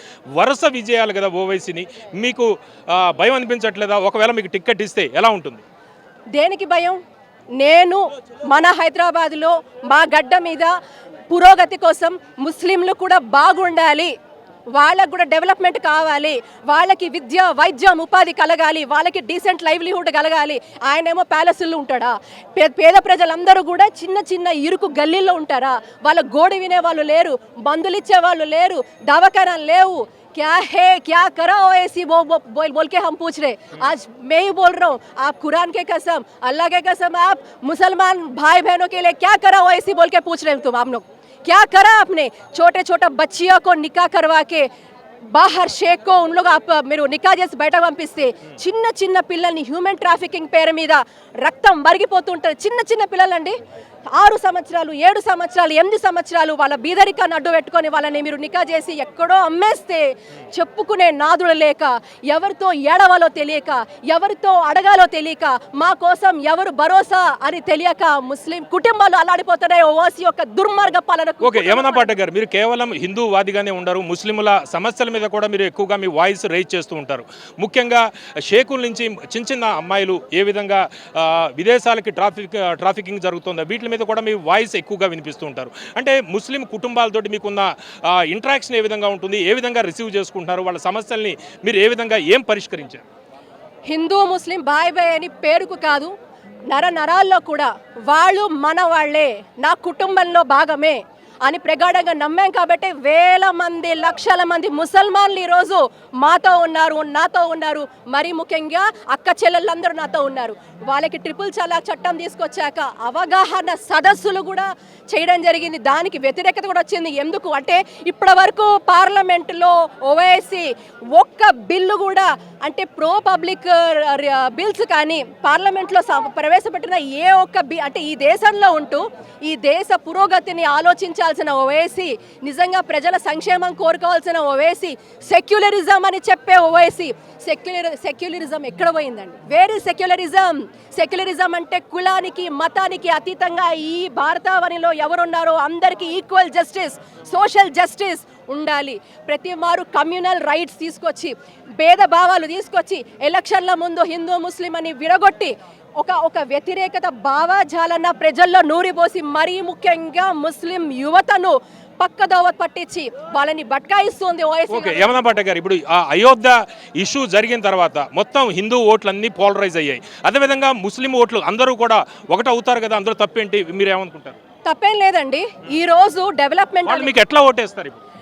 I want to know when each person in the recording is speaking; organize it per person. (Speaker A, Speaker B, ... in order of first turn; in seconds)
Speaker A: 0.4-5.6, 71.4-93.0, 164.7-174.4, 176.8-178.0
Speaker B: 6.3-7.0, 7.6-10.7, 11.3-14.1, 14.7-44.7, 45.3-53.6, 54.1-72.1, 93.9-96.1, 96.7-165.2, 174.6-177.2